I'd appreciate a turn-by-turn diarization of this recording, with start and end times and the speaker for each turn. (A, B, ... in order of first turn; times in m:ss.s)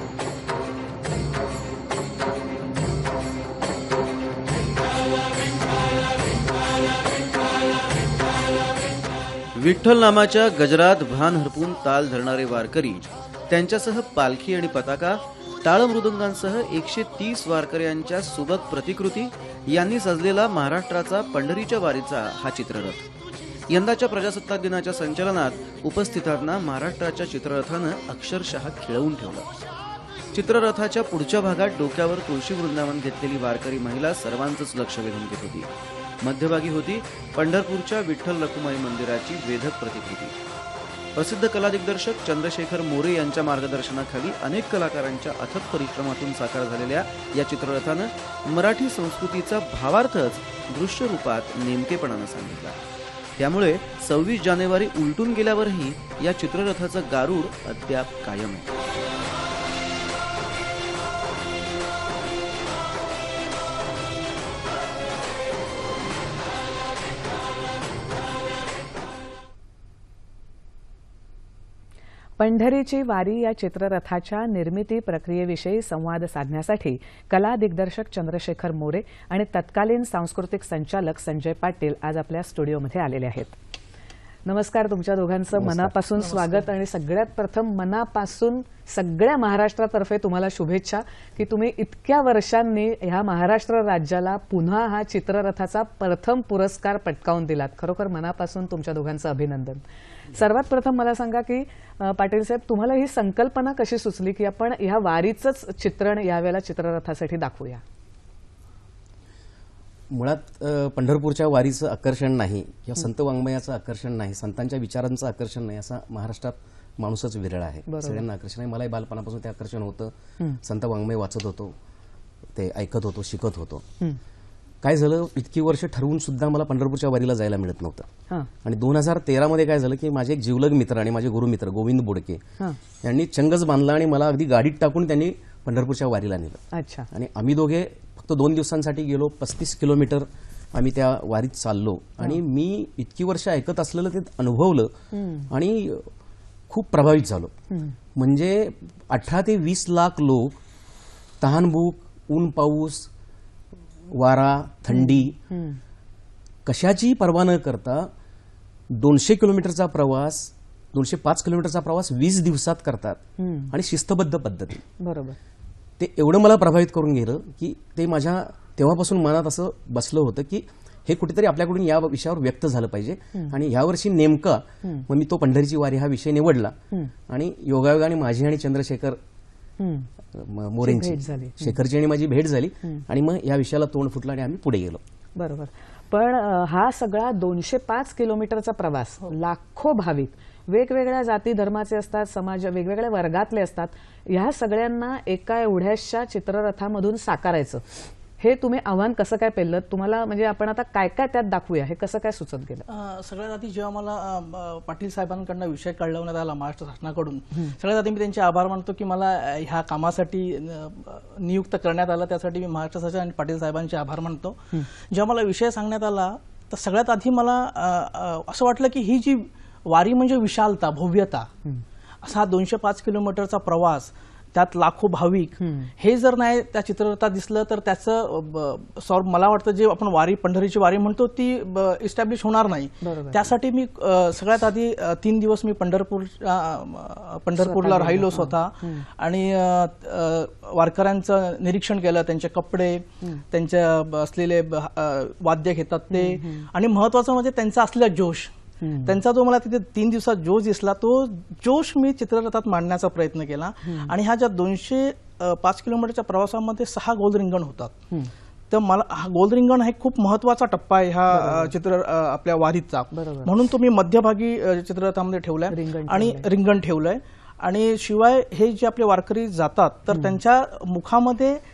0:09.5-0:23.0 A
0:23.7-0:29.5 A
0:30.3-0:35.7 A
0:36.2-0:40.3 A
0:41.1-0:52.8 A
0:53.4-0:58.7 A
1:12.4-1:23.6 B
1:24.4-1:39.8 B
1:25.6-1:25.9 C
1:26.3-1:26.6 D
1:40.3-1:47.8 B
1:50.1-2:01.7 C
1:57.9-1:58.2 B
2:02.5-2:03.8 C
2:04.8-2:08.0 C
2:08.6-2:12.4 C
2:13.0-2:24.9 C
2:16.7-2:17.1 B
2:25.1-2:25.5 B
2:25.5-2:26.1 C
2:26.7-2:27.5 C
2:27.7-2:28.0 B
2:28.1-2:30.6 C
2:31.4-2:33.1 C
2:34.1-2:35.3 C
2:34.9-2:35.8 B
2:36.6-2:38.1 C
2:38.9-2:44.8 C
2:43.4-2:43.7 B
2:45.0-2:45.4 B
2:46.0-2:56.8 C
2:57.3-2:59.2 C
2:59.8-3:00.1 B
3:00.3-3:05.0 C
3:00.8-3:01.7 B
3:05.4-3:17.8 B
3:18.4-3:22.8 B
3:22.9-3:41.5 D
3:42.2-4:08.5 D
3:45.6-3:45.9 B
3:53.0-3:53.4 B
3:57.6-3:59.0 B
4:06.1-4:06.7 B
4:08.8-4:09.2 B
4:09.0-4:18.0 D
4:13.8-4:14.1 B
4:18.7-4:31.6 D
4:21.3-4:21.7 B
4:23.1-4:23.5 B
4:25.7-4:26.5 B
4:30.1-4:30.4 B